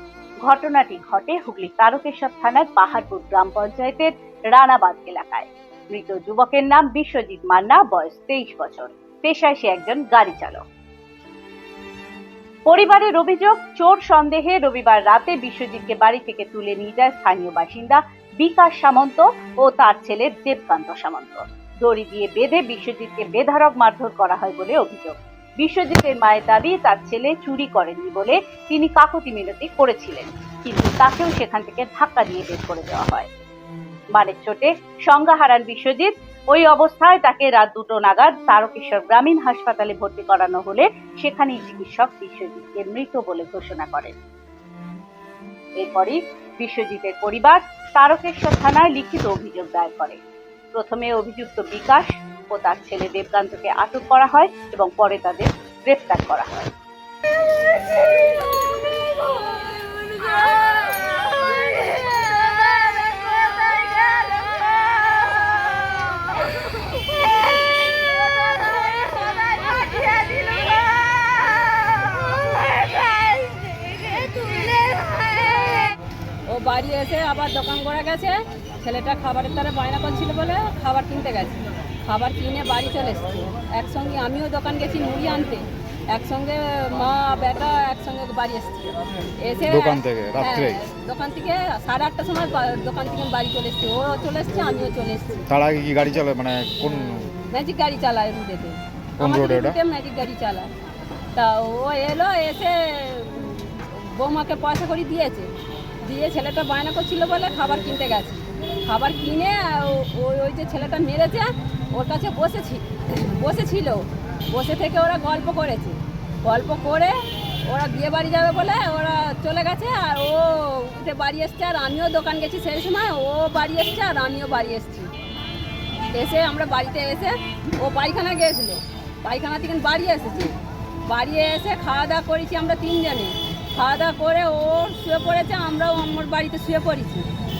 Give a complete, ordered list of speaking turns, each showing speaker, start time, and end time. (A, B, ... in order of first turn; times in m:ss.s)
0:00.4-0:10.6 A
0:12.6-0:33.3 A
0:34.1-0:44.1 A
0:45.8-0:50.2 A
0:50.7-0:56.7 A
1:09.9-1:10.3 B
1:16.5-1:35.5 B
1:29.7-1:30.8 C
1:35.5-1:37.3 C
1:37.4-1:40.7 B
1:39.2-1:39.8 C
1:41.4-1:45.5 B
1:46.0-1:57.1 B
1:57.6-2:05.1 B
2:06.1-2:10.5 B
2:11.1-2:17.3 B